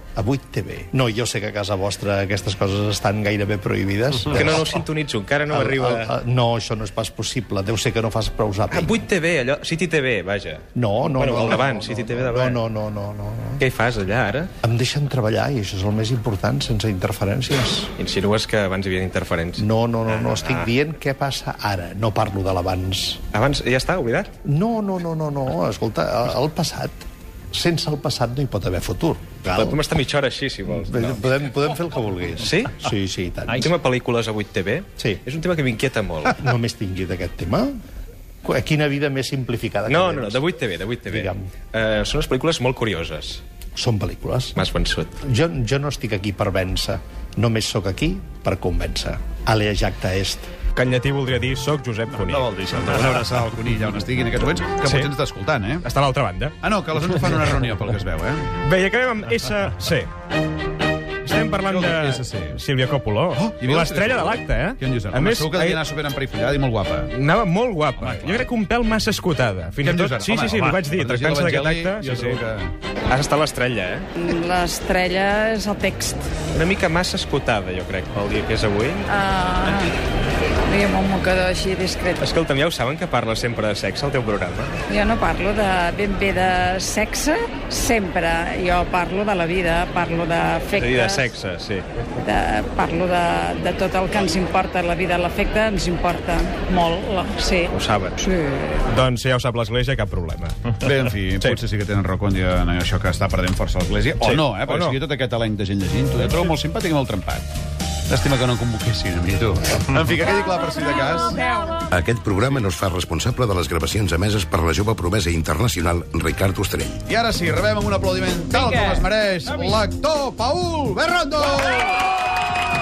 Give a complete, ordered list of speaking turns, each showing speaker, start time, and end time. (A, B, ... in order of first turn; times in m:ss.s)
0:00.2-0:04.7 A
0:04.3-0:06.0 B
0:05.5-0:09.1 A
0:08.7-0:10.6 B
0:10.7-0:13.6 A
0:11.2-0:12.6 B
0:13.6-0:14.5 B
0:14.6-0:17.9 A
0:18.0-0:20.7 B
0:19.6-0:23.2 A
0:23.3-0:24.3 B
0:24.4-0:29.8 A
0:29.5-0:31.2 B
0:30.7-0:33.7 A
0:32.4-0:32.7 B
0:33.5-0:36.4 B
0:36.4-0:37.7 A
0:38.4-0:40.5 A
0:39.9-0:43.4 B
0:41.0-0:41.4 A
0:43.7-0:44.6 A
0:44.6-0:45.1 B
0:45.2-0:50.5 A
0:50.8-0:52.5 B
0:52.1-0:55.8 C
0:54.8-0:55.1 B
0:55.8-0:56.6 B
0:56.6-0:58.5 C
0:58.6-1:00.1 B
1:01.2-1:05.8 B
1:01.6-1:02.6 C
1:03.4-1:07.1 C
1:07.1-1:12.4 B
1:08.0-1:08.5 C
1:09.8-1:12.7 C
1:13.0-1:14.1 B
1:14.2-1:16.2 D
1:16.5-1:19.1 B
1:19.1-1:19.9 D
1:20.6-1:22.2 D
1:22.2-1:24.8 B
1:24.9-1:31.2 D
1:30.8-1:31.8 B
1:32.2-1:38.8 D
1:37.7-1:38.2 B
1:38.8-1:40.8 B
1:40.8-1:47.4 C
1:44.2-1:45.0 B
1:48.1-1:51.5 C
1:51.9-1:57.0 E
1:57.0-2:02.1 C